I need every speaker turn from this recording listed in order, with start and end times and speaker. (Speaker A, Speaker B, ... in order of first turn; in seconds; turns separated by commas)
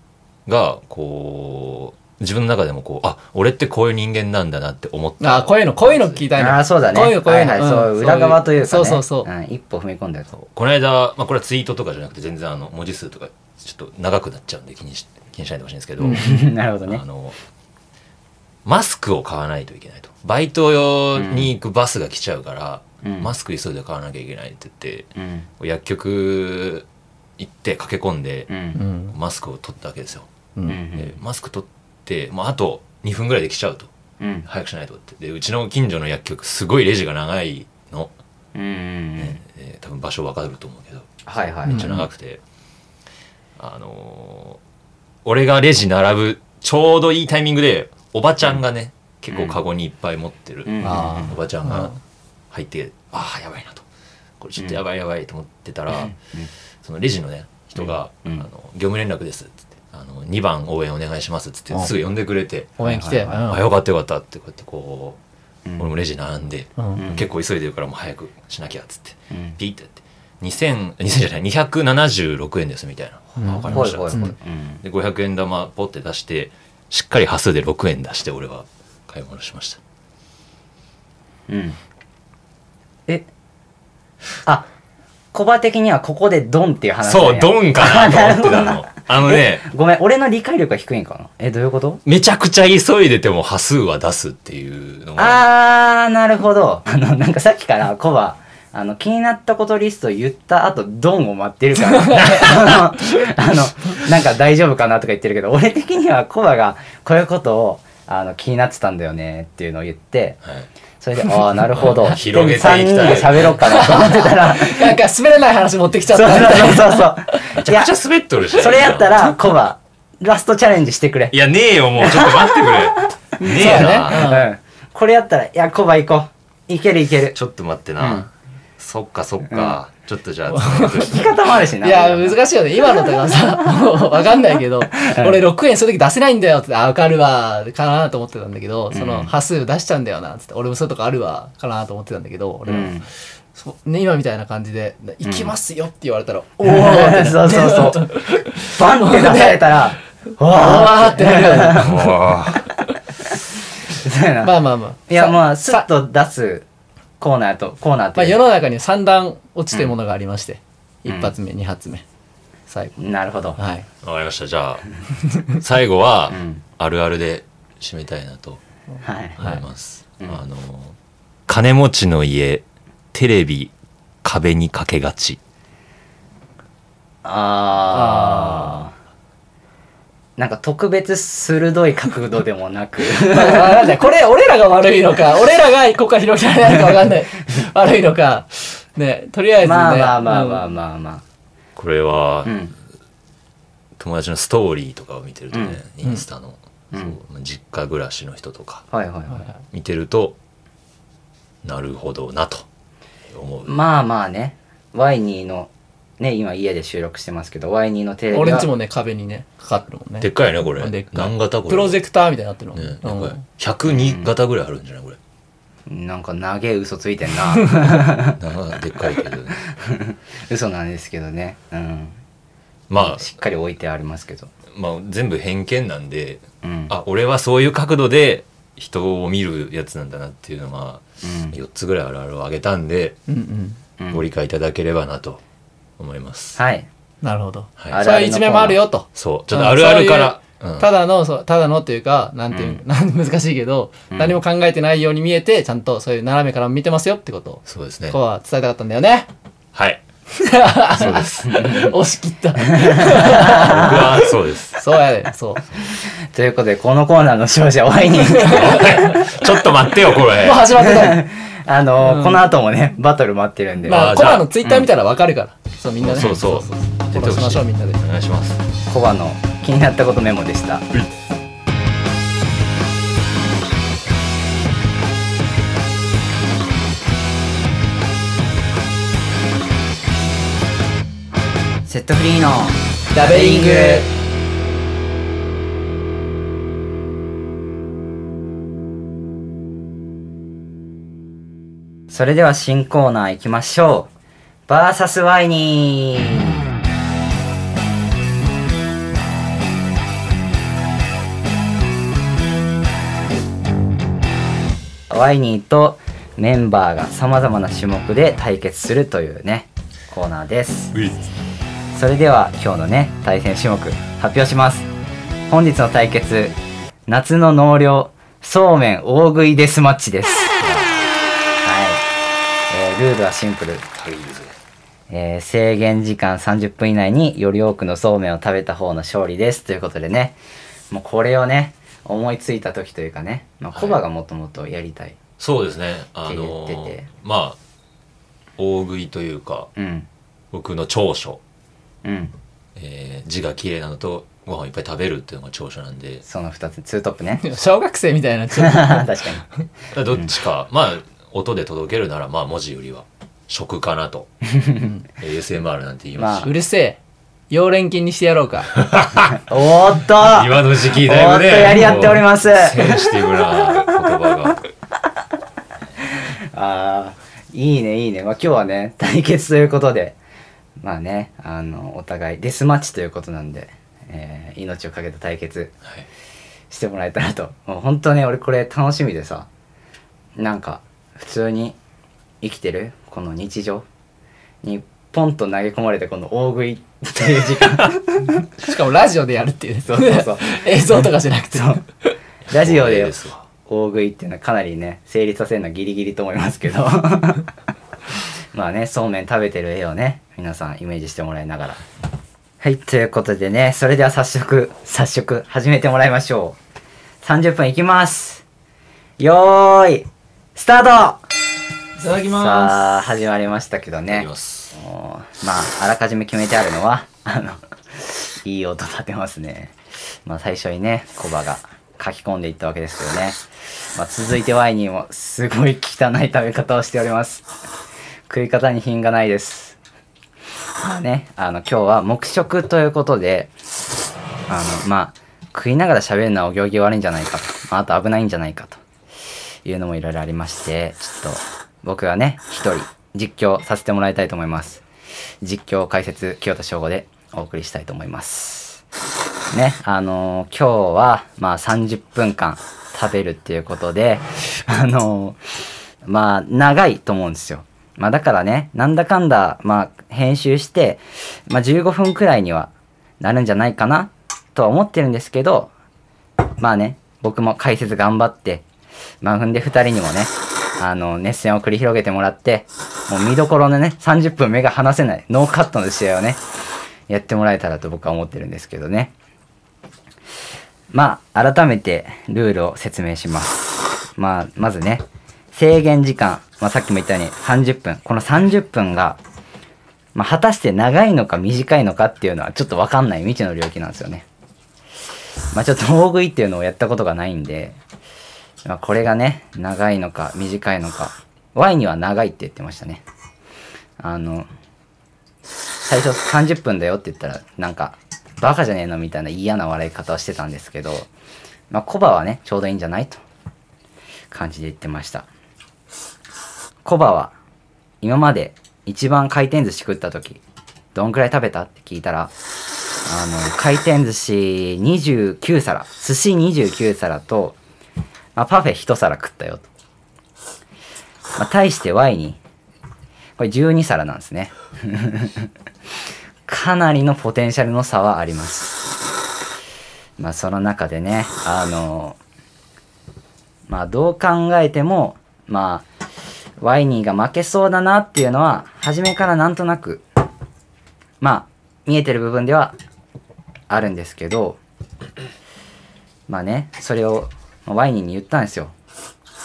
Speaker A: 0.5-6.3, Speaker B: 5.2-9.3, Speaker C: 6.3-10.3, Speaker A: 10.3-16.4, Speaker B: 16.0-16.4, Speaker C: 16.1-17.0, Speaker A: 16.9-17.4, Speaker A: 18.6-26.9, Speaker C: 21.1-21.5, Speaker C: 23.0-23.3, Speaker C: 25.1-25.5, Speaker A: 27.4-28.5, Speaker C: 28.5-28.8, Speaker B: 28.8-29.1, Speaker A: 29.1-30.3, Speaker C: 30.7-31.1, Speaker A: 30.9-33.9, Speaker C: 34.2-34.5, Speaker A: 34.5-38.1, Speaker C: 38.5-39.4, Speaker A: 39.2-41.1, Speaker C: 41.2-41.9, Speaker A: 41.6-42.4, Speaker B: 41.7-42.0, Speaker A: 43.6-44.6, Speaker A: 45.2-51.9, Speaker C: 49.3-49.6, Speaker C: 50.6-51.3, Speaker B: 50.8-52.0, Speaker A: 52.5-53.8, Speaker A: 54.4-56.1, Speaker A: 56.8-62.7, Speaker B: 62.8-63.6, Speaker C: 62.8-63.4, Speaker A: 63.4-65.2, Speaker A: 65.8-74.2, Speaker B: 66.8-67.0, Speaker C: 66.9-67.3, Speaker C: 69.3-69.6, Speaker B: 73.4-74.3, Speaker C: 73.4-74.8, Speaker A: 74.8-79.8, Speaker C: 81.5-81.8, Speaker C: 85.3-92.0, Speaker A: 87.0-89.6, Speaker A: 92.0-95.4, Speaker C: 95.2-110.4, Speaker B: 101.9-102.3, Speaker C: 111.0-115.0, Speaker A: 111.8-113.9, Speaker B: 113.6-117.4, Speaker C: 116.1-117.9, Speaker A: 117.5-119.3, Speaker C: 118.5-121.3, Speaker A: 121.3-124.3, Speaker C: 122.0-127.3, Speaker B: 123.4-124.5, Speaker A: 127.3-131.3, Speaker C: 128.0-128.3, Speaker C: 129.4-129.8, Speaker B: 130.5-131.1, Speaker C: 130.9-132.4, Speaker B: 131.8-143.0, Speaker C: 134.9-135.4, Speaker C: 138.9-139.3, Speaker C: 142.7-143.1, Speaker B: 143.6-149.8, Speaker C: 145.2-145.5, Speaker C: 146.6-152.2, Speaker B: 150.5-152.1, Speaker A: 151.8-152.7, Speaker C: 153.2-154.6, Speaker B: 154.4-155.8, Speaker C: 155.1-156.7, Speaker C: 157.2-158.4, Speaker B: 158.2-162.0, Speaker C: 161.1-161.3, Speaker B: 162.7-162.9, Speaker C: 163.0-163.6, Speaker B: 163.6-163.9, Speaker A: 164.0-164.8, Speaker A: 165.4-168.6, Speaker C: 166.3-166.6, Speaker C: 169.0-169.4, Speaker A: 169.4-170.9, Speaker A: 171.5-175.4, Speaker C: 177.2-178.9, Speaker B: 177.9-178.8, Speaker C: 180.4-184.0, Speaker B: 183.1-190.7, Speaker C: 189.6-191.2, Speaker A: 191.8-192.6, Speaker C: 192.4-192.7, Speaker A: 194.0-198.9, Speaker C: 195.5-195.8, Speaker C: 198.9-199.5, Speaker A: 199.7-200.3, Speaker A: 201.6-202.7, Speaker A: 203.3-203.7, Speaker C: 203.6-208.7, Speaker B: 208.3-213.4, Speaker A: 210.2-212.0, Speaker A: 212.7-215.2, Speaker C: 213.9-214.3, Speaker C: 215.9-218.4, Speaker A: 218.4-219.6, Speaker C: 219.5-222.2, Speaker A: 222.9-223.3, Speaker C: 223.0-224.5, Speaker A: 224.7-233.2, Speaker C: 226.6-226.9, Speaker C: 231.2-231.5, Speaker B: 233.3-233.8, Speaker A: 234.1-235.4, Speaker A: 236.0-236.6, Speaker C: 236.6-236.9, Speaker B: 237.2-249.3, Speaker C: 237.9-238.8, Speaker A: 239.1-240.9, Speaker C: 242.5-242.8, Speaker C: 244.1-244.4, Speaker A: 247.7-248.2, Speaker A: 249.7-250.0, Speaker B: 250.3-255.7, Speaker A: 250.9-251.8, Speaker C: 251.4-251.9, Speaker C: 252.6-254.0, Speaker A: 253.4-254.8, Speaker C: 256.3-259.4, Speaker B: 258.2-259.3, Speaker A: 258.4-260.7, Speaker B: 260.2-261.3, Speaker C: 260.7-264.2, Speaker B: 262.0-262.5, Speaker B: 263.8-268.0, Speaker A: 263.9-264.8, Speaker A: 266.0-268.6, Speaker C: 268.9-270.9, Speaker C: 281.9-284.1, Speaker B: 283.1-284.1, Speaker C: 292.1-294.1, Speaker C: 294.7-296.6, Speaker C: 305.1-310.9, Speaker C: 311.9-314.9, Speaker C: 315.5-316.6, Speaker C: 317.1-320.7, Speaker A: 320.6-320.9, Speaker C: 321.6-322.0, Speaker C: 322.7-323.9, Speaker A: 323.9-324.6, Speaker C: 325.1-330.4, Speaker C: 330.9-335.2, Speaker A: 333.7-334.0, Speaker A: 335.4-337.6, Speaker C: 336.2-337.1, Speaker A: 338.6-339.7, Speaker C: 339.8-340.1, Speaker A: 340.5-341.4, Speaker C: 342.0-342.3, Speaker A: 342.8-346.2, Speaker C: 346.2-347.5, Speaker B: 347.4-349.1, Speaker C: 348.6-349.4, Speaker A: 349.9-354.3, Speaker C: 354.5-354.9, Speaker A: 355.2-356.5, Speaker C: 356.2-356.5, Speaker B: 356.4-357.0, Speaker B: 357.5-358.7, Speaker A: 358.7-359.4, Speaker C: 359.4-364.2, Speaker A: 360.1-364.6, Speaker C: 366.0-370.2, Speaker C: 370.8-375.7, Speaker C: 376.7-379.5, Speaker C: 380.4-381.8, Speaker C: 382.4-383.9, Speaker C: 384.6-388.4, Speaker B: 388.6-392.1, Speaker C: 389.9-391.8, Speaker A: 392.5-393.4, Speaker C: 392.5-393.1, Speaker C: 393.6-397.4, Speaker C: 398.5-401.8, Speaker C: 402.6-406.6, Speaker C: 407.2-408.4, Speaker C: 409.2-411.2, Speaker B: 412.0-412.8, Speaker C: 412.3-419.7, Speaker A: 414.1-414.7, Speaker C: 420.2-423.4, Speaker C: 423.9-427.5, Speaker C: 428.3-429.8, Speaker C: 430.8-433.5, Speaker C: 434.5-438.8, Speaker C: 439.6-444.8, Speaker C: 445.4-448.8, Speaker C: 449.5-455.4, Speaker C: 456.0-465.7, Speaker C: 466.6-468.6, Speaker C: 469.2-476.4, Speaker C: 477.1-479.1, Speaker C: 480.9-489.2, Speaker C: 490.1-494.2, Speaker C: 495.5-497.8, Speaker C: 498.6-503.0, Speaker C: 504.0-504.5, Speaker C: 505.8-511.1, Speaker C: 511.7-513.2, Speaker C: 514.3-515.3, Speaker C: 516.8-517.3, Speaker C: 518.0-520.4, Speaker C: 520.9-522.3, Speaker C: 523.0-527.5, Speaker C: 528.3-529.7, Speaker C: 531.4-532.4, Speaker C: 533.4-535.5, Speaker C: 536.5-538.9, Speaker C: 540.2-542.2, Speaker C: 543.7-545.9, Speaker C: 546.6-550.0, Speaker C: 551.2-552.7, Speaker C: 553.7-554.6, Speaker C: 556.3-558.7